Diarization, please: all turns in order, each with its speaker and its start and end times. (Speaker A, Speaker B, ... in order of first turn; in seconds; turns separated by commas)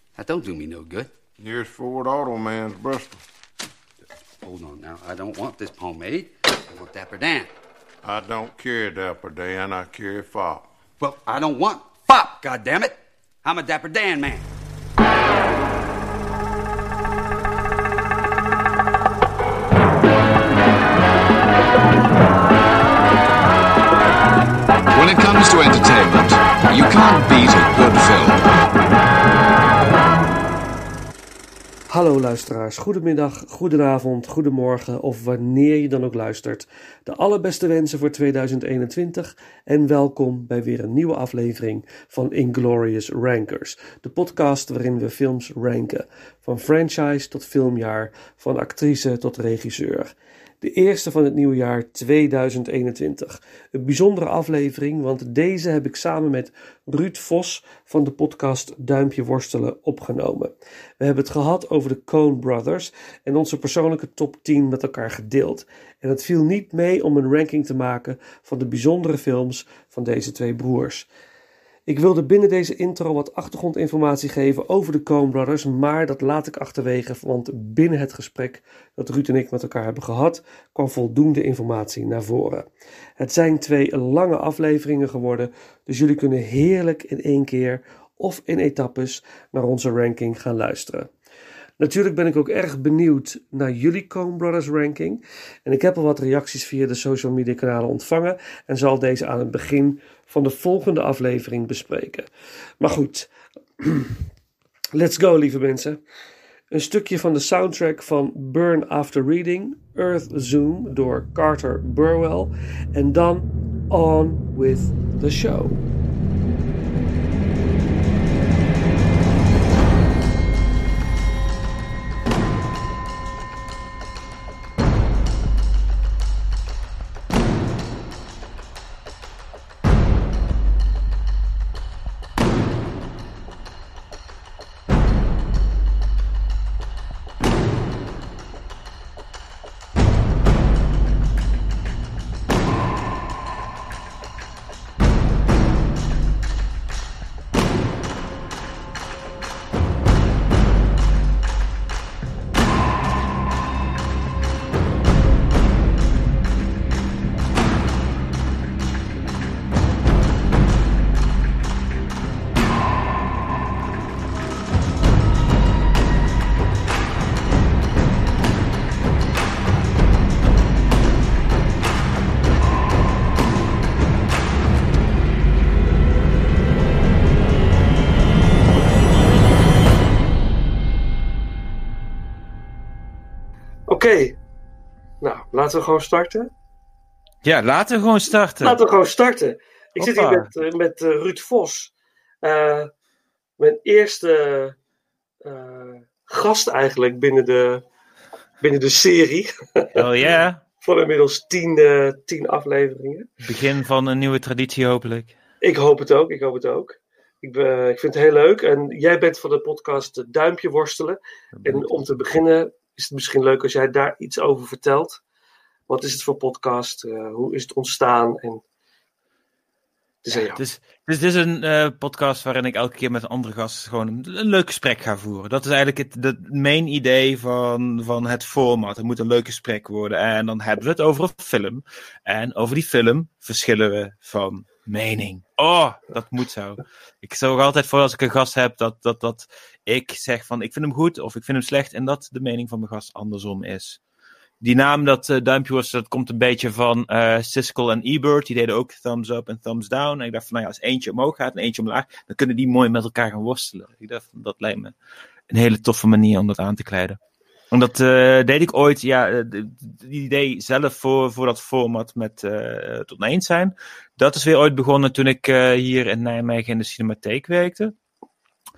Speaker A: 0.2-1.1, Speaker B: 1.4-3.2, Speaker A: 4.4-7.5, Speaker B: 8.0-10.7, Speaker A: 11.0-14.4, Speaker C: 24.9-28.4, Speaker D: 31.9-71.1, Speaker D: 71.9-82.7, Speaker D: 83.2-91.1, Speaker D: 91.8-102.3, Speaker D: 102.8-103.3, Speaker D: 103.8-104.1, Speaker D: 105.0-106.0, Speaker D: 106.7-115.8, Speaker D: 183.9-184.4, Speaker D: 185.2-186.5, Speaker E: 187.4-188.8, Speaker D: 188.6-191.9, Speaker E: 190.0-190.5, Speaker D: 192.4-192.9, Speaker D: 193.6-194.8, Speaker D: 195.4-197.8, Speaker D: 198.6-200.0, Speaker E: 199.9-200.6, Speaker D: 200.8-203.3, Speaker E: 203.4-205.4, Speaker D: 205.6-215.2, Speaker E: 211.5-211.9, Speaker D: 215.9-218.6, Speaker D: 220.2-220.6, Speaker E: 220.3-244.0, Speaker E: 244.6-254.9, Speaker E: 255.5-257.2, Speaker E: 257.7-267.9